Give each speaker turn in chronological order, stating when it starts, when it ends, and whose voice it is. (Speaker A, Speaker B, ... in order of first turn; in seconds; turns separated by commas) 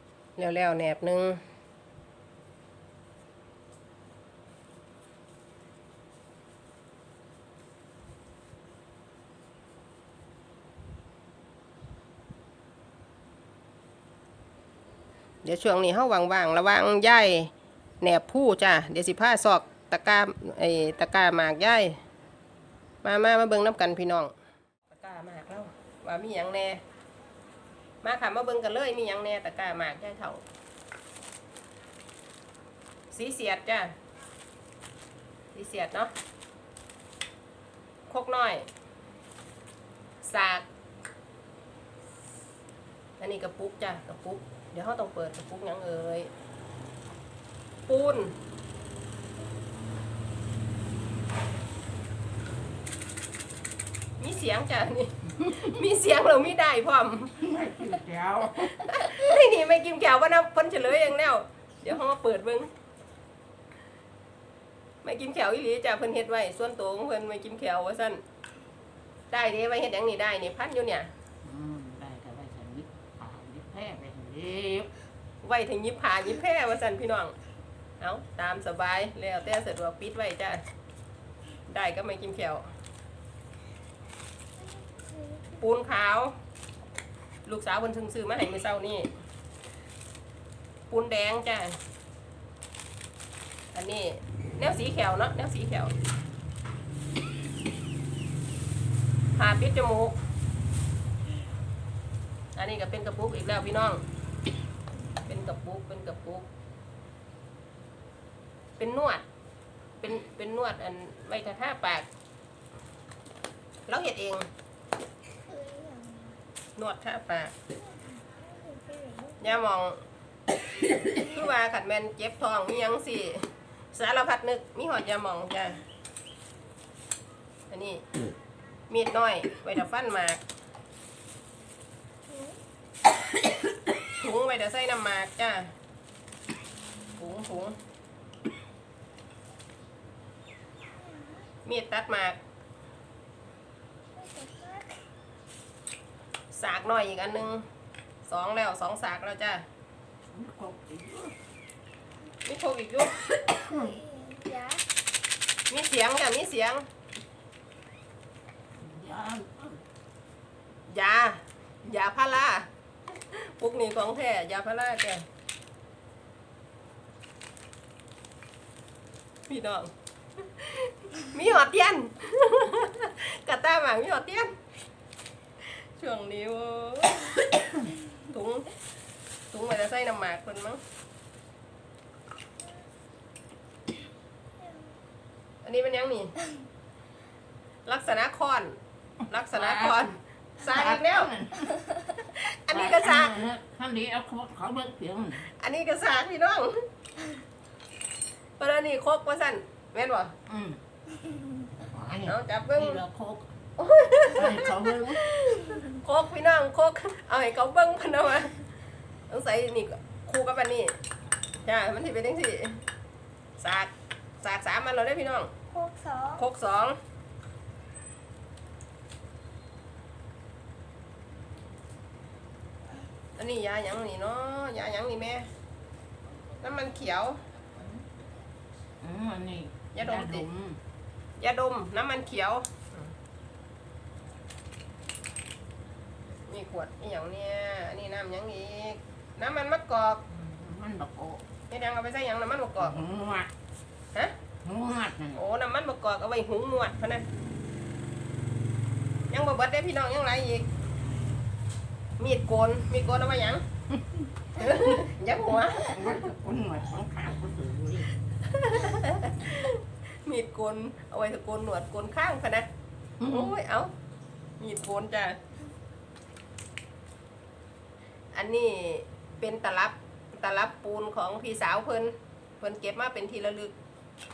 Speaker A: 0.4-1.4, Speaker A: 15.4-17.5, Speaker A: 18.0-22.0, Speaker A: 23.0-24.3, Speaker A: 24.9-26.8, Speaker A: 28.0-30.4, Speaker A: 33.1-34.0, Speaker A: 35.5-36.1, Speaker A: 38.1-38.7, Speaker A: 40.2-40.7, Speaker A: 43.2-46.3, Speaker A: 47.9-48.3, Speaker A: 54.2-57.4, Speaker B: 57.4-59.3, Speaker A: 58.8-62.7, Speaker A: 65.0-68.2, Speaker A: 69.3-71.1, Speaker B: 71.4-74.9, Speaker A: 75.4-77.3, Speaker A: 78.0-80.6, Speaker A: 81.7-82.7, Speaker C: 84.6-85.6, Speaker A: 85.6-86.3, Speaker A: 87.5-89.1, Speaker A: 90.9-91.8, Speaker A: 93.7-95.9, Speaker A: 99.3-100.2, Speaker A: 102.6-104.0, Speaker A: 105.3-106.5, Speaker A: 108.8-109.2, Speaker A: 110.0-112.1, Speaker A: 113.9-114.5, Speaker C: 115.5-116.4, Speaker A: 116.8-117.5, Speaker C: 117.9-119.6, Speaker A: 119.4-120.0, Speaker A: 121.1-125.8, Speaker A: 127.7-128.0, Speaker A: 128.9-130.4, Speaker C: 132.3-132.6, Speaker A: 134.1-135.7, Speaker A: 137.2-137.8, Speaker C: 141.0-141.5, Speaker A: 141.7-142.4, Speaker C: 144.2-145.0, Speaker A: 146.5-147.7, Speaker A: 148.3-149.6, Speaker B: 150.3-151.3, Speaker A: 152.4-153.2, Speaker B: 153.5-154.0, Speaker C: 153.7-154.8, Speaker A: 155.7-156.8, Speaker B: 158.8-159.8, Speaker A: 160.9-165.3, Speaker A: 169.5-174.5, Speaker A: 175.6-177.5, Speaker A: 178.2-178.7, Speaker A: 179.5-180.8, Speaker C: 184.6-184.9, Speaker A: 185.6-186.3, Speaker A: 187.8-188.8, Speaker A: 189.3-191.3, Speaker B: 189.4-191.9, Speaker A: 192.2-193.4, Speaker B: 192.7-195.5, Speaker A: 195.5-196.8, Speaker A: 198.6-200.3, Speaker B: 200.5-200.8, Speaker B: 201.8-203.5, Speaker A: 202.3-203.0, Speaker A: 203.8-208.6, Speaker B: 204.3-205.3, Speaker A: 209.3-210.9, Speaker A: 211.6-212.8, Speaker A: 213.6-215.5, Speaker C: 215.7-216.4, Speaker A: 216.3-217.0, Speaker A: 223.3-225.5, Speaker A: 226.6-227.4, Speaker B: 227.8-228.0, Speaker B: 229.0-230.8, Speaker A: 229.9-230.5, Speaker A: 231.4-233.1, Speaker A: 236.5-240.2, Speaker B: 240.3-241.4, Speaker A: 241.7-243.0, Speaker B: 242.8-243.5, Speaker B: 244.6-245.4, Speaker A: 245.3-247.2, Speaker A: 249.3-250.7, Speaker A: 252.2-253.6, Speaker A: 254.6-256.0, Speaker B: 254.7-255.0, Speaker B: 255.6-258.1, Speaker A: 258.5-262.7, Speaker B: 263.2-263.5, Speaker A: 263.2-263.9, Speaker A: 264.6-265.4, Speaker A: 268.3-273.7